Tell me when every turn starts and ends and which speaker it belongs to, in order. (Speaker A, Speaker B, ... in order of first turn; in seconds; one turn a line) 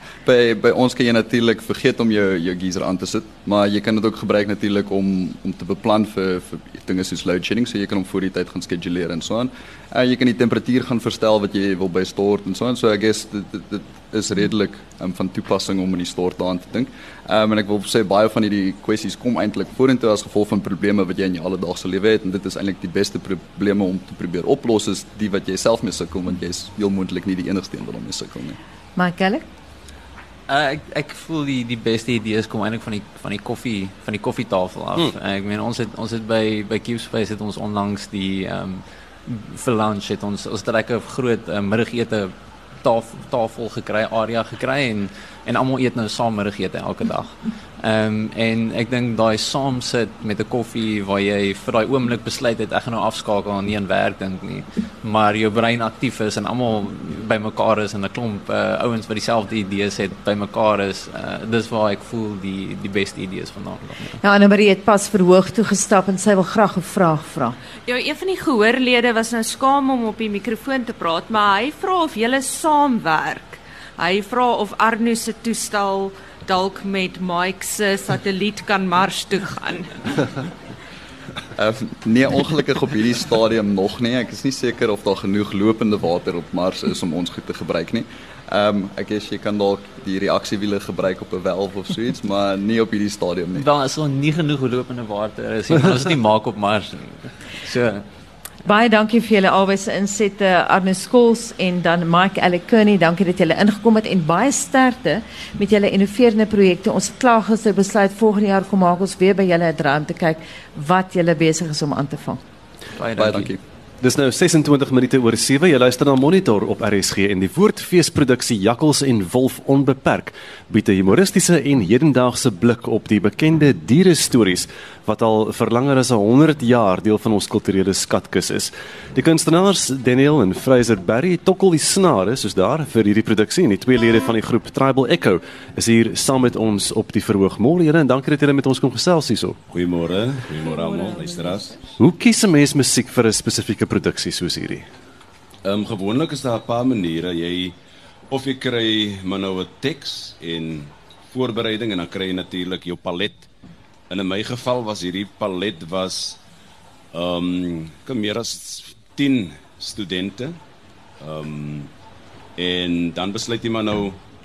Speaker A: 0.2-28.6
Speaker B: 29.0-29.4
Speaker C: 30.5-64.2
Speaker B: 64.2-67.6
Speaker D: 67.9-80.0
Speaker A: 81.6-93.7
Speaker C: 93.5-98.0
Speaker B: 98.7-112.4
Speaker C: 113.0-113.5
Speaker A: 113.2-113.6
Speaker E: 114.0-139.6
Speaker F: 139.7-141.8
Speaker E: 142.0-144.9
Speaker F: 145.7-147.8
Speaker F: 148.3-153.5
Speaker F: 154.1-156.4
Speaker F: 157.1-160.6
Speaker F: 161.2-161.9
Speaker F: 162.6-164.2